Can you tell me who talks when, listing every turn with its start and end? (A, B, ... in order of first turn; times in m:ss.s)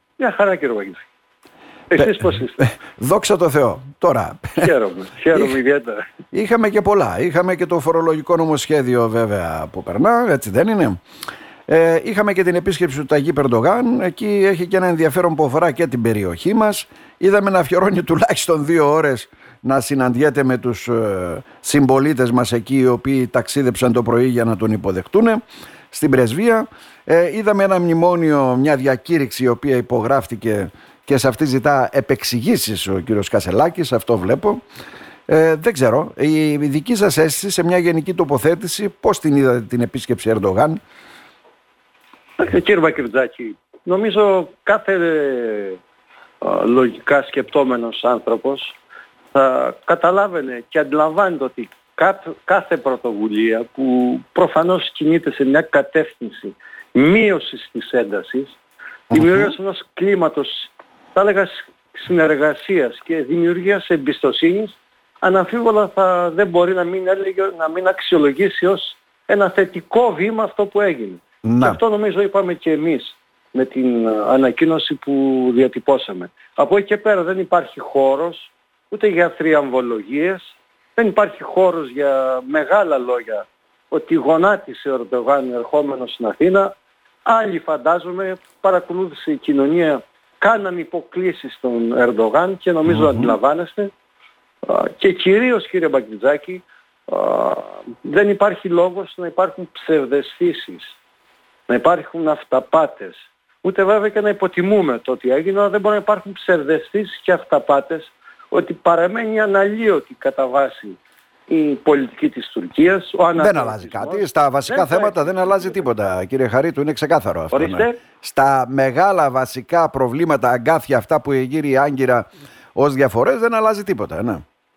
0:00.2-0:01.0 A
0:01.9-0:02.6 A
0:02.0-0:04.7 B
0:04.6-0:06.0 A
0:06.3-0:11.0 B
0:11.7-0:25.4 B
0:25.9-0:34.6 B
0:35.3-0:40.8 B
0:42.4-0:45.8 A
0:46.4-0:48.8 A
0:49.3-0:58.6 A
0:59.1-1:26.7 A
1:11.4-1:11.8 B
1:27.2-1:33.9 A
1:32.9-1:33.3 B
1:34.6-1:41.0 A
1:41.7-1:55.9 A
1:53.4-2:04.4 B
1:57.5-1:58.0 A